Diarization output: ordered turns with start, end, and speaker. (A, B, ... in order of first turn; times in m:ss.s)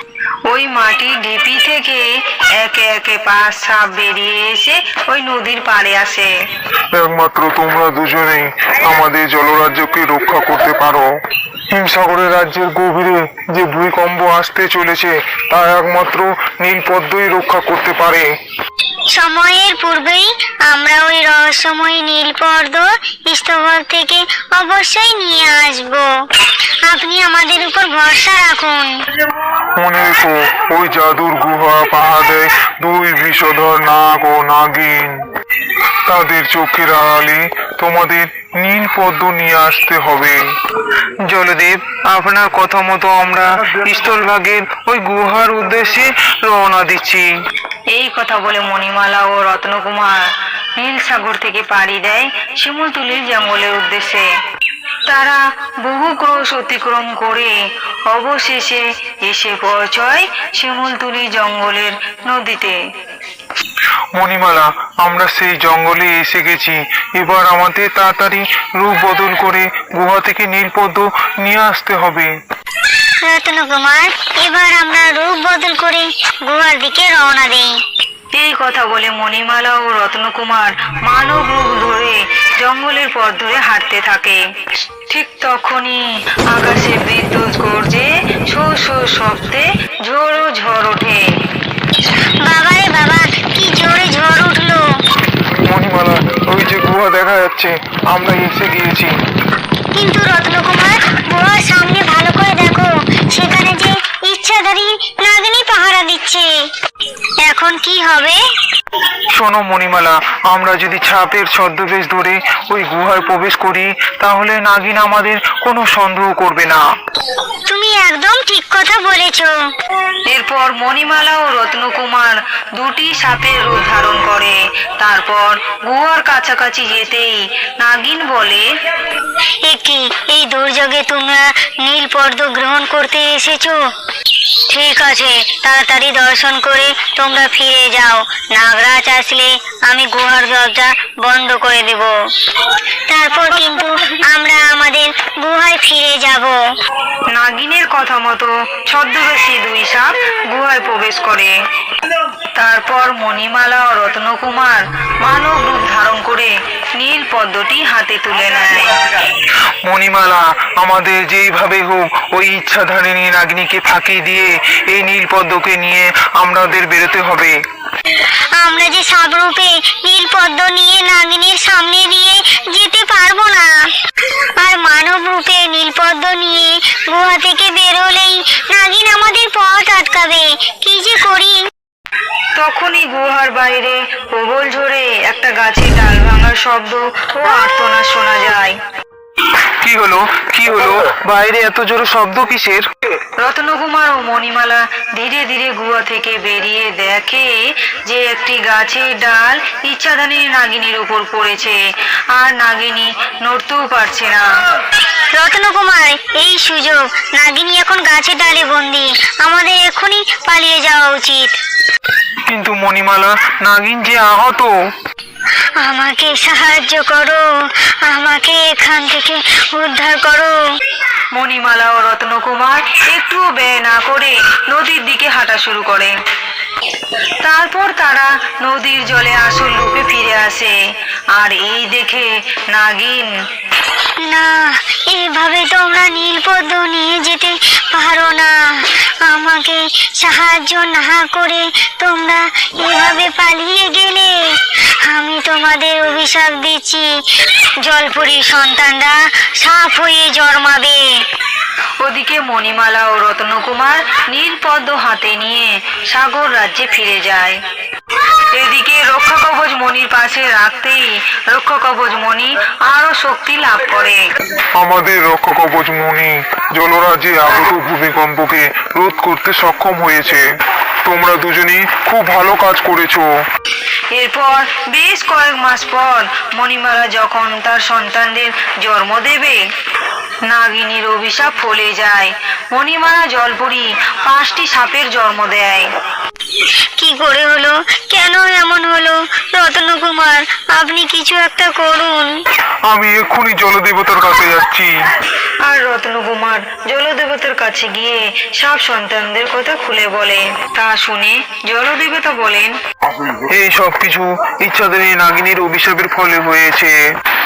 0:00.5-0:02.0 A
0:02.6-0:06.3 A
0:06.9-0:11.1 B
0:11.7-0:18.3 B
0:19.1-0:26.1 C
0:26.9-0:28.9 C
0:29.8-0:35.2 B
0:36.1-0:40.4 B
0:41.2-0:47.3 B
0:47.9-0:54.3 A
0:55.1-0:57.6 A
0:58.1-1:02.8 A
1:04.2-1:12.3 B
1:13.2-1:17.7 C
1:18.4-1:24.4 A
1:25.1-1:31.2 A
1:32.4-1:34.8 C
1:35.6-1:39.1 B
1:39.9-1:46.5 C
1:47.4-1:48.4 C
1:49.3-1:56.8 B
1:57.7-1:59.6 C
2:00.3-2:08.7 A
2:09.6-2:13.8 C
2:14.7-2:22.1 C
2:23.1-2:26.6 C
2:27.3-2:31.6 A
2:32.6-2:39.0 A
2:39.8-2:47.6 B
2:48.6-2:53.7 C
2:54.6-3:01.6 C
3:02.6-3:08.8 A
3:09.8-3:12.8 B
3:13.4-3:21.8 A
3:22.4-3:24.5 A
3:25.3-3:31.5 C
3:32.4-3:34.7 B
3:35.8-3:37.4 C
3:38.0-3:40.6 C
3:41.3-3:46.1 A
3:47.4-3:50.8 A
3:51.3-3:53.3 A
3:54.2-4:07.1 C
4:07.8-4:11.2 C
4:12.0-4:17.6 A
4:18.6-4:24.2 A
4:24.8-4:30.4 B
4:31.0-4:33.3 B
4:34.1-4:39.6 A
4:40.5-4:45.9 A
4:47.0-4:52.3 C
4:52.9-4:54.9 B
4:55.7-5:02.8 A
5:03.5-5:07.0 B